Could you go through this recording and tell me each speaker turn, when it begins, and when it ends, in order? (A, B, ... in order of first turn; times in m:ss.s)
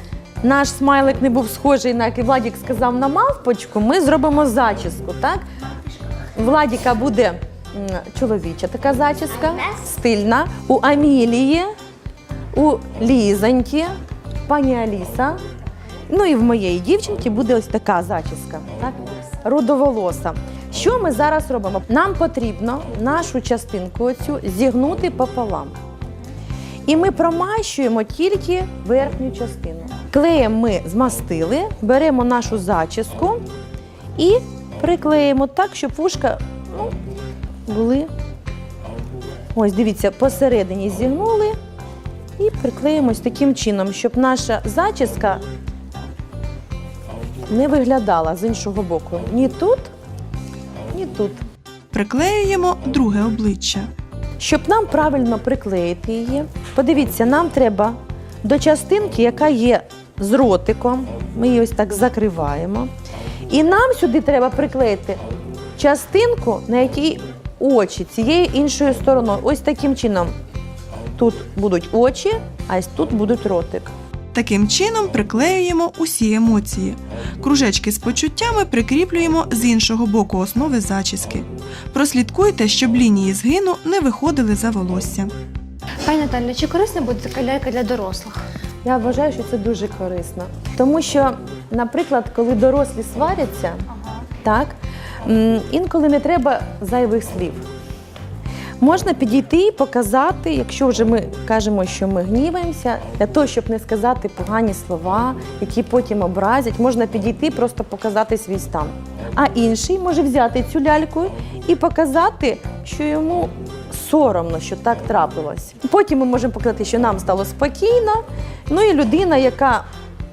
0:00.4-0:05.4 A
0:06.3-0:11.7 A
0:12.5-0:13.9 A
0:14.5-0:15.4 A
0:16.1-0:25.8 A
0:26.8-0:33.4 A
0:34.2-0:36.9 A
0:37.7-0:38.1 A
0:39.5-0:41.6 A
0:42.4-0:45.4 A
0:47.5-0:49.9 A
0:50.9-0:51.4 A
0:51.9-0:53.9 B
0:54.4-1:02.9 A
1:03.5-1:05.2 A
1:05.8-1:10.3 A
1:11.2-1:13.9 A
1:14.3-1:25.3 B
1:26.0-1:28.4 C
1:28.8-1:33.8 A
1:34.4-1:37.6 A
1:38.8-1:59.8 A